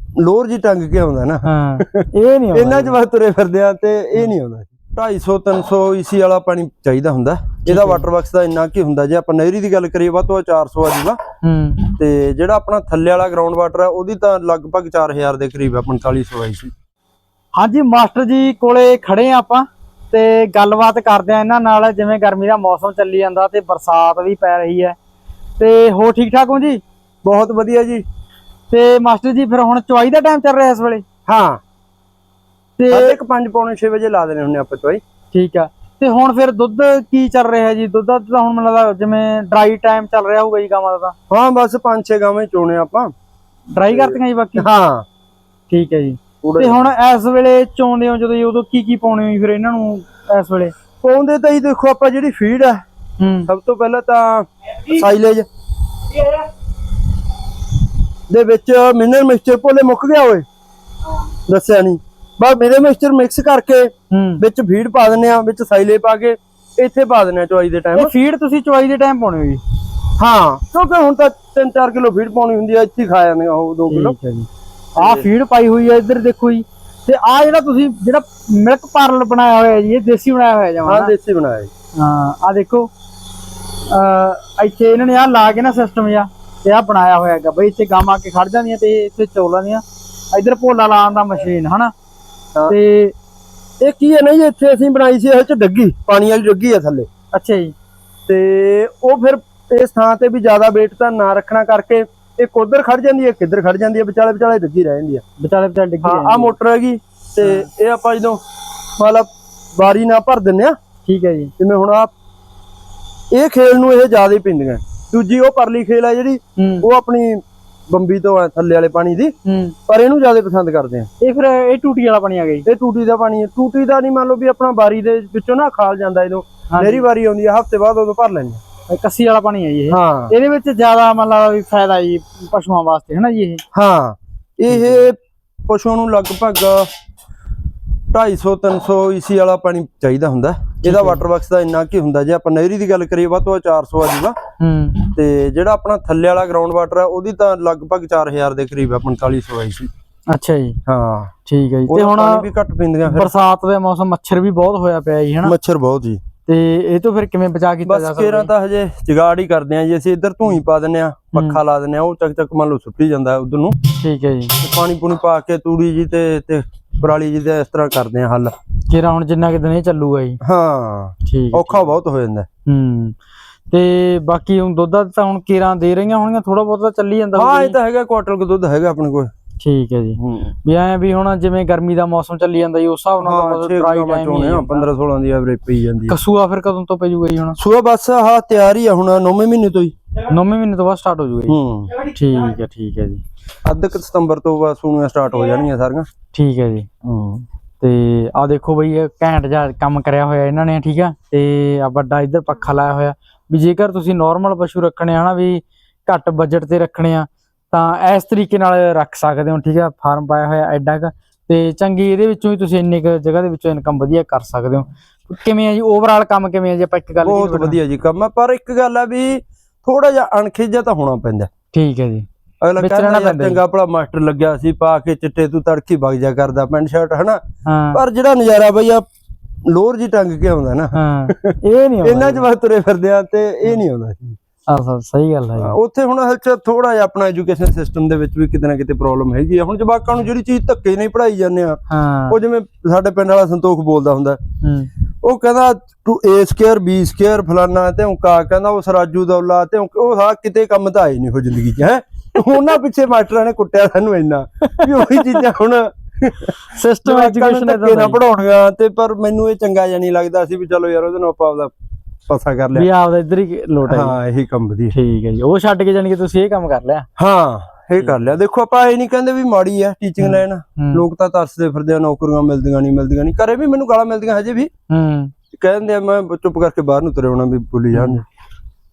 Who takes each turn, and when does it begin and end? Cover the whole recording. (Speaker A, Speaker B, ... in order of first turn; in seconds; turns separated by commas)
Speaker A: 0.2-11.2, Speaker B: 1.4-3.0, Speaker B: 7.7-8.0, Speaker B: 11.4-12.0, Speaker A: 12.0-16.7, Speaker B: 17.6-25.0, Speaker B: 25.6-26.8, Speaker A: 27.2-28.0, Speaker B: 28.7-31.1, Speaker A: 31.3-31.6, Speaker B: 32.8-33.2, Speaker A: 32.9-35.0, Speaker B: 35.3-41.1, Speaker A: 41.3-43.1, Speaker B: 43.7-44.7, Speaker A: 43.9-45.1, Speaker B: 45.7-50.7, Speaker A: 46.4-46.9, Speaker A: 51.0-52.8, Speaker B: 53.2-53.5, Speaker A: 53.5-55.5, Speaker A: 58.3-60.5, Speaker A: 61.5-68.1, Speaker B: 64.1-64.4, Speaker B: 68.0-69.6, Speaker A: 70.2-74.1, Speaker B: 73.9-81.1, Speaker A: 75.0-75.3, Speaker A: 80.8-81.7, Speaker B: 82.0-82.9, Speaker B: 83.9-91.9, Speaker B: 92.7-93.2, Speaker A: 93.8-97.1, Speaker B: 97.3-97.7, Speaker A: 98.3-105.2, Speaker B: 105.4-106.5, Speaker A: 106.0-108.4, Speaker B: 107.4-107.7, Speaker A: 109.0-110.8, Speaker B: 111.1-111.5, Speaker A: 111.6-112.1, Speaker A: 113.3-119.3, Speaker B: 116.6-116.9, Speaker B: 119.5-119.8, Speaker A: 119.9-121.1, Speaker B: 121.2-122.7, Speaker A: 122.7-128.6, Speaker B: 126.7-127.0, Speaker B: 128.9-133.6, Speaker A: 129.9-130.3, Speaker A: 133.7-136.9, Speaker B: 134.7-135.1, Speaker A: 138.1-144.3, Speaker B: 140.8-141.2, Speaker B: 144.6-145.1, Speaker A: 145.2-149.9, Speaker B: 150.3-150.8, Speaker A: 150.9-151.3, Speaker B: 151.5-152.5, Speaker A: 151.9-153.3, Speaker B: 153.1-155.5, Speaker A: 155.4-156.2, Speaker B: 156.5-158.5, Speaker A: 157.9-163.8, Speaker B: 161.3-161.6, Speaker B: 163.9-164.6, Speaker A: 164.6-168.5, Speaker B: 168.9-170.4, Speaker A: 170.4-172.5, Speaker B: 171.3-171.9, Speaker B: 172.7-173.2, Speaker B: 173.7-177.8, Speaker A: 177.3-179.3, Speaker B: 179.6-184.9, Speaker A: 180.2-180.5, Speaker A: 183.2-186.2, Speaker B: 186.1-187.6, Speaker A: 187.6-189.9, Speaker B: 190.2-193.2, Speaker A: 191.5-192.0, Speaker A: 193.7-196.1, Speaker B: 196.3-196.9, Speaker A: 197.0-197.5, Speaker B: 197.8-217.8, Speaker A: 217.2-221.5, Speaker B: 221.7-222.3, Speaker A: 222.6-227.4, Speaker B: 222.8-223.6, Speaker B: 227.7-228.0, Speaker A: 227.9-229.0, Speaker A: 229.7-234.4, Speaker B: 230.9-232.4, Speaker B: 234.7-235.8, Speaker A: 235.6-244.4, Speaker B: 241.9-242.4, Speaker B: 244.6-244.9, Speaker A: 245.2-261.7, Speaker B: 254.7-255.4, Speaker B: 256.6-258.2, Speaker A: 262.3-262.9, Speaker B: 262.8-264.2, Speaker A: 263.9-264.9, Speaker B: 264.9-267.1, Speaker A: 267.2-274.7, Speaker B: 270.2-271.1, Speaker B: 274.9-275.3, Speaker A: 275.5-278.2, Speaker B: 277.9-278.2